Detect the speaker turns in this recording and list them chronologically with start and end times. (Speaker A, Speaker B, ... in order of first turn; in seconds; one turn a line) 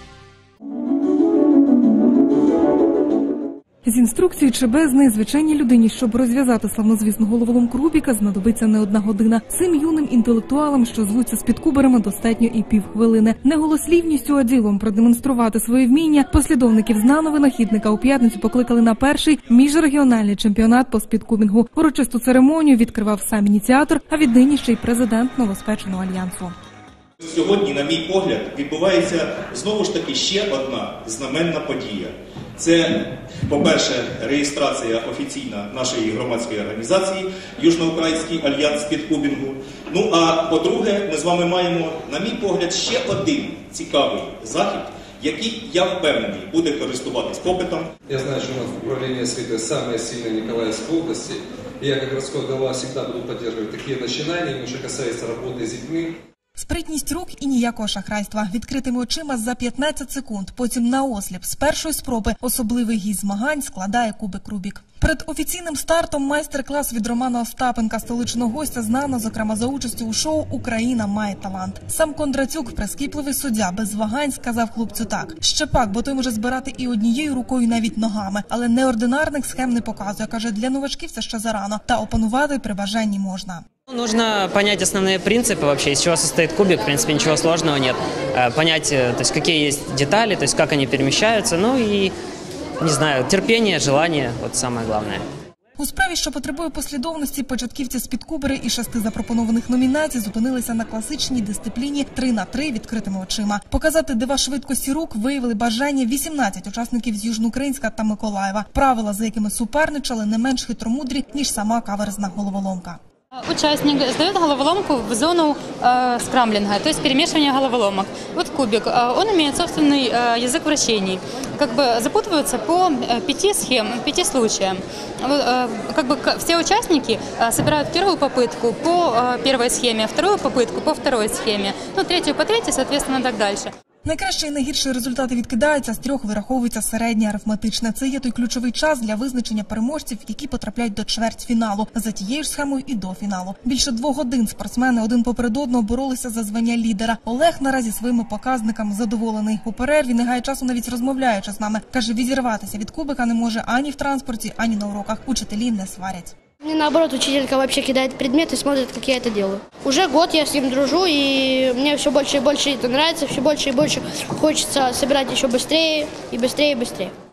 Speaker A: 3.9-26.6
Speaker B: 27.3-32.9
Speaker B: 33.5-47.9
Speaker C: 48.1-56.2
Speaker A: 56.5-83.7
Speaker D: 83.9-92.1
Speaker D: 92.8-95.2
Speaker A: 95.8-113.0
Speaker E: 113.4-133.7
Speaker A: 134.1-156.3
Speaker F: 156.6-167.1